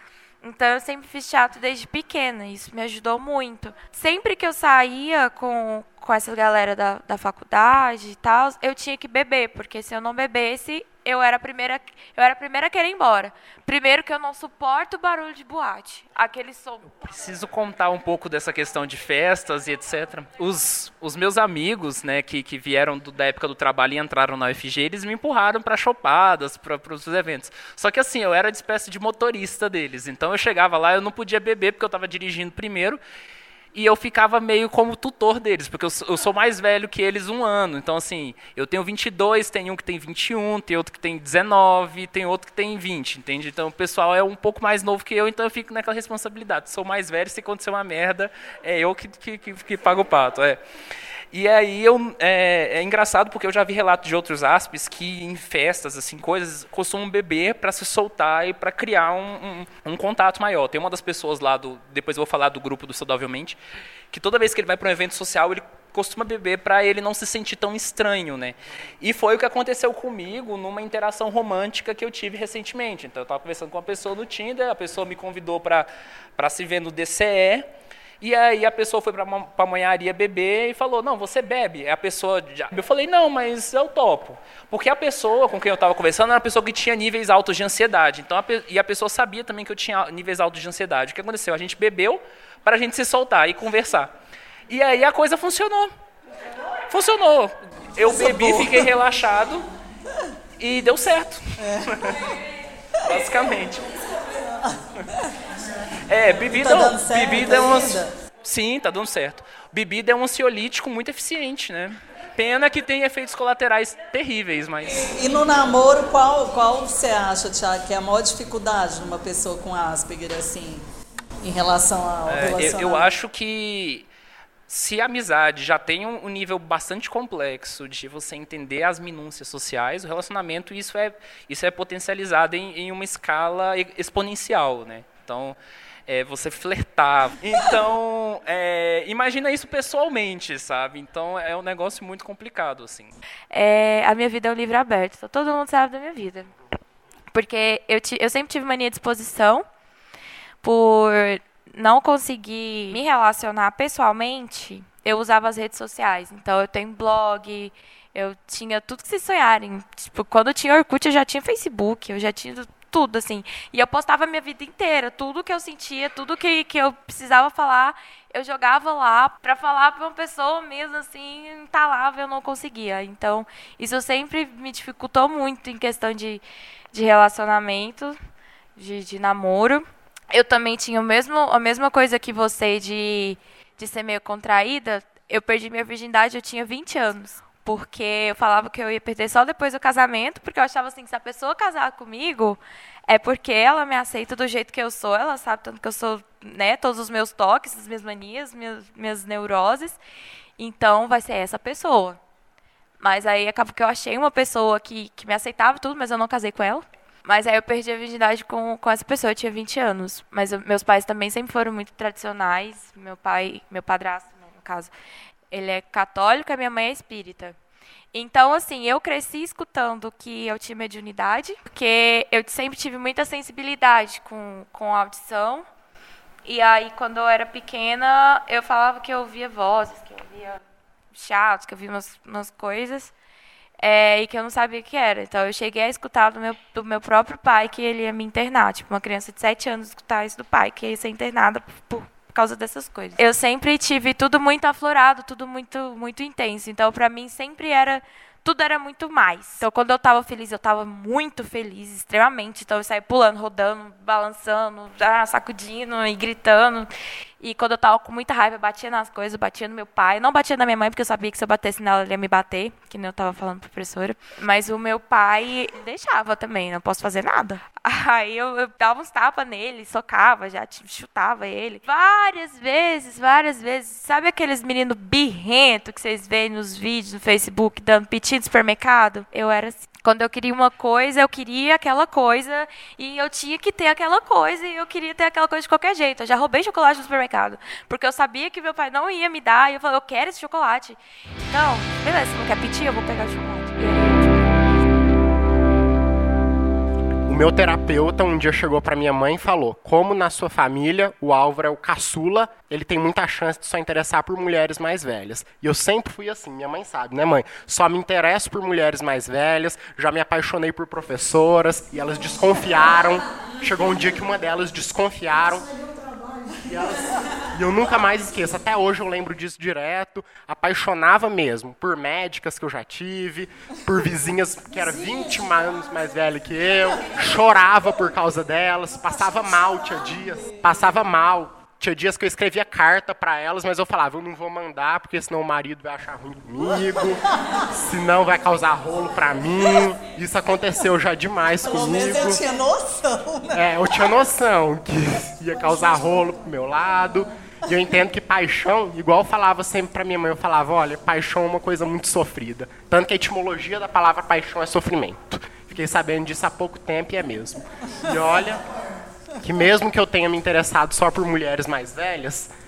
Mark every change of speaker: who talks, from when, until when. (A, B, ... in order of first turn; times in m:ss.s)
0:00.4-0:17.1 A
0:17.0-0:33.0 B
0:33.7-0:50.6 B
0:51.3-1:03.6 B
1:04.1-1:17.7 B
1:18.2-1:34.1 B
1:34.7-1:35.9 B
1:36.9-1:39.6 B
1:38.0-1:38.9 C
1:40.6-1:42.2 B
1:41.6-1:42.1 C
1:43.0-1:43.9 B
1:44.5-1:45.3 C
1:46.1-1:55.1 B
1:46.6-1:48.1 C
1:55.1-2:00.8 C
2:01.4-2:03.0 C
2:02.3-2:04.1 B
2:04.7-2:23.1 B
2:23.5-2:26.5 A
2:27.3-2:29.6 A
2:30.6-2:56.4 A
2:56.9-2:58.2 A
2:58.8-3:20.0 A
3:20.6-3:22.2 A
3:23.0-3:34.9 A
3:35.5-3:37.5 A
3:38.1-3:45.6 A
3:46.4-3:50.6 A
3:51.1-3:53.1 A
3:53.8-4:54.9 A
4:57.3-5:15.7 D
5:16.6-5:42.4 D
5:41.6-5:43.6 C
5:43.5-5:58.6 D
5:59.4-6:02.5 D